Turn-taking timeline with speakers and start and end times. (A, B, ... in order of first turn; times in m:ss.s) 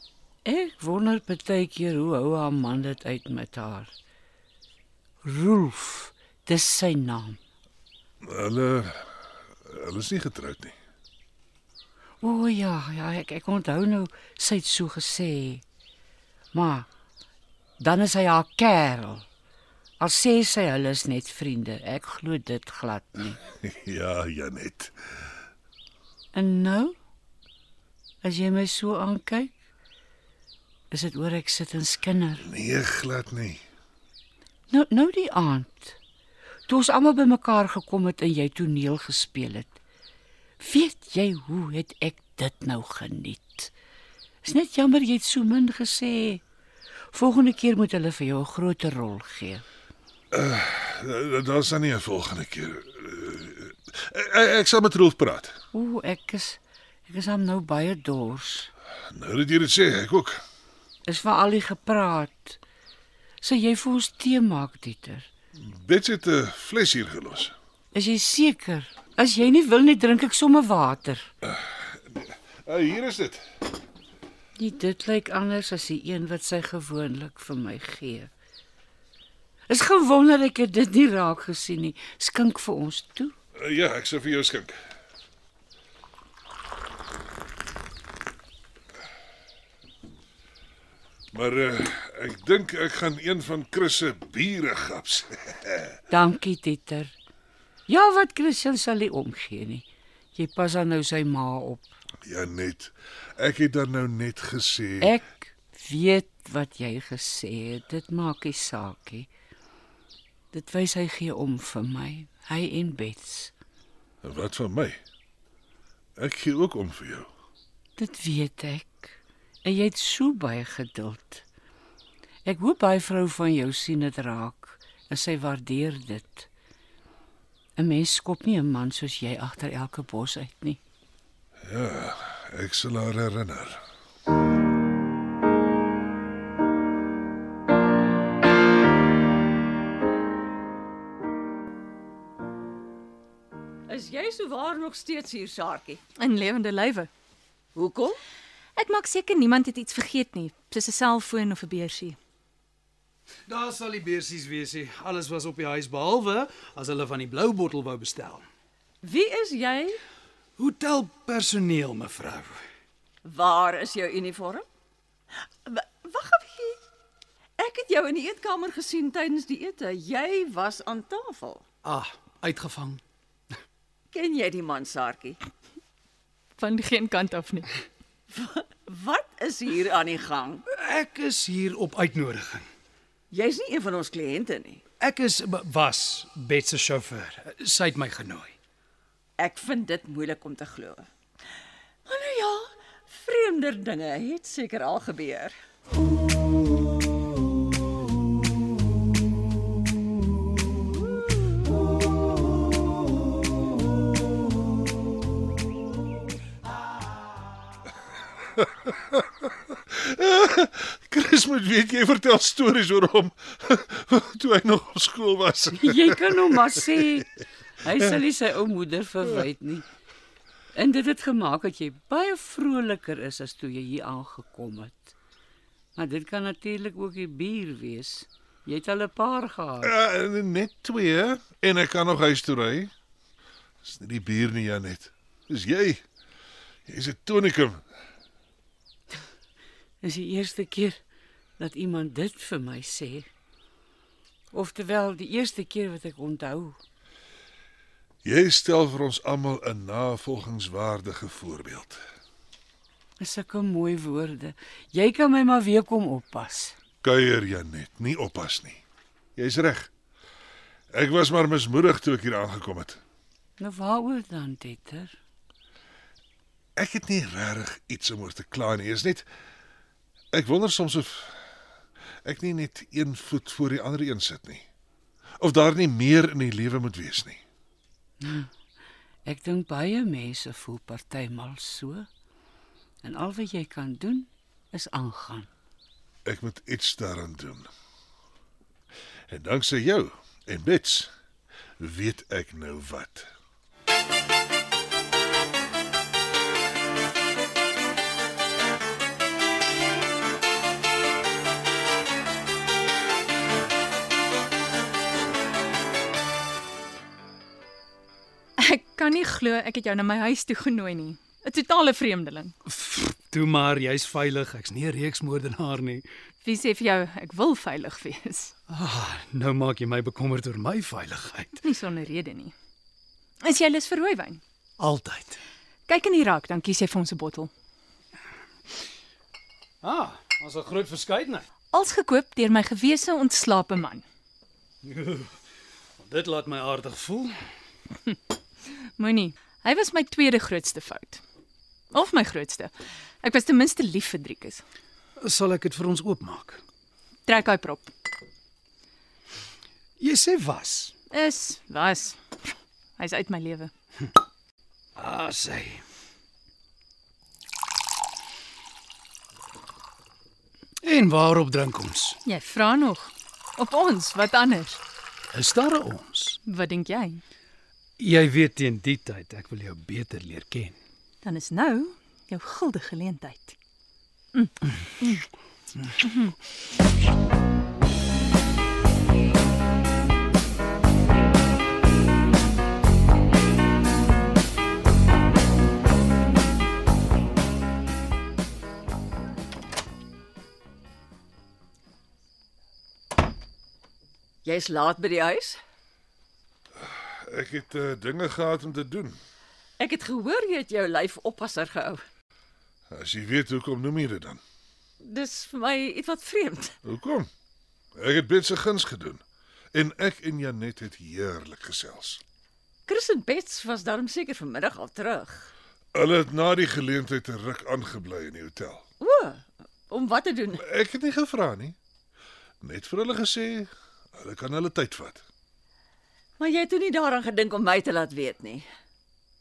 0:00.4-0:03.9 A
0:05.2-0:07.4 A
0:08.2-0:09.1 B
0:09.7-0:10.8 B
0:12.2-0:15.6 A
0:16.5-0:16.9 A
0:17.8-0:19.3 A
0:20.0-0:23.4 A
0:23.6-0:24.9 B
0:26.3-0:27.0 A
0:28.2-0:29.5 A
0:30.9-0:32.4 A
0:32.4-0:33.6 B
0:34.7-0:36.0 A
0:36.7-0:39.7 A
0:40.6-0:43.7 A
0:44.4-0:46.4 A
0:47.1-0:49.6 A
0:50.3-0:55.6 B
0:55.7-0:58.7 A
0:59.1-1:00.4 B
1:01.1-1:02.6 A
1:03.4-1:05.3 A
1:05.6-1:07.5 B
1:07.9-1:11.3 A
1:11.5-1:13.4 B
1:14.6-1:18.3 A
1:19.7-1:23.4 A
1:23.6-1:24.8 B
1:31.3-1:36.0 B
1:36.1-1:37.2 A
1:37.9-1:41.9 A
1:42.3-1:45.1 B
1:45.0-1:49.3 A
1:50.5-1:53.5 A
1:54.2-1:55.0 B
1:56.2-1:57.3 B
1:58.0-2:01.5 A
2:02.4-2:06.5 A
2:07.8-2:10.8 A
2:11.7-2:13.8 B
2:23.9-2:26.0 C
2:26.2-2:27.1 D
2:27.8-2:28.2 C
2:28.8-2:32.2 D
2:33.5-2:38.5 E
2:39.0-2:40.0 C
2:40.6-2:42.6 E
2:43.2-2:44.7 C
2:45.6-2:46.8 C
2:47.6-2:51.6 C
2:51.8-2:53.0 E
2:54.1-2:55.4 C
2:56.6-2:57.7 D
2:58.3-3:00.6 C
3:00.7-3:02.7 E
3:03.3-3:04.9 C
3:05.0-3:08.6 E
3:09.4-3:11.1 C
3:12.1-3:15.6 C
3:28.9-3:36.6 B
3:35.8-3:37.3 A
3:37.8-3:39.9 A
3:40.7-3:45.2 A
3:46.0-3:49.9 A
3:49.8-3:52.9 B
3:53.8-3:56.0 B
3:56.9-3:57.8 B
4:00.0-4:01.0 A
4:01.6-4:03.3 A
4:04.5-4:06.8 A
4:08.2-4:12.0 B
4:13.2-4:16.8 A
4:17.0-4:18.8 B
4:19.4-4:19.9 B
4:20.9-4:23.0 B
4:23.6-4:25.2 A
4:26.8-4:29.3 B
4:30.3-4:31.4 B
4:32.2-4:34.7 B
4:35.4-4:37.4 B
4:38.2-4:38.5 A
4:39.2-4:42.1 A
4:43.0-4:45.5 A
4:46.2-4:47.7 B
4:49.3-4:51.1 B
4:51.8-4:53.3 B
5:08.6-5:12.6 D
5:12.7-5:16.1 E
5:16.4-5:18.6 D
5:18.7-5:21.6 E
5:21.6-5:22.6 D
5:23.4-5:24.4 D
5:24.8-5:25.4 E
5:25.9-5:27.5 D
5:29.8-5:31.5 E
5:31.7-5:34.0 D
5:34.8-5:35.3 E
5:36.0-5:37.4 E
5:39.0-5:41.2 D
5:41.9-5:44.6 D
5:45.2-5:46.6 E
5:47.3-5:47.9 D
5:50.0-5:50.9 E
5:51.1-5:53.7 D
5:55.0-5:55.8 E
6:00.8-6:02.2 E
6:02.3-6:04.8 D
6:05.3-6:06.4 E
6:06.5-6:07.2 D
6:08.0-6:10.8 E
6:11.2-6:13.6 D
6:14.3-6:15.2 D
6:16.0-6:16.4 D
6:34.4-6:35.6 C
6:36.8-6:39.2 B
6:39.8-6:42.0 C
6:42.9-6:44.4 B
6:45.0-6:46.8 C
6:46.8-6:47.3 B
6:48.0-6:49.2 B
6:49.7-6:52.2 B
6:52.9-6:55.5 C
6:55.9-6:58.8 B
6:59.0-7:00.6 C
7:00.6-7:01.8 B
7:02.6-7:05.2 B
7:06.4-7:08.7 C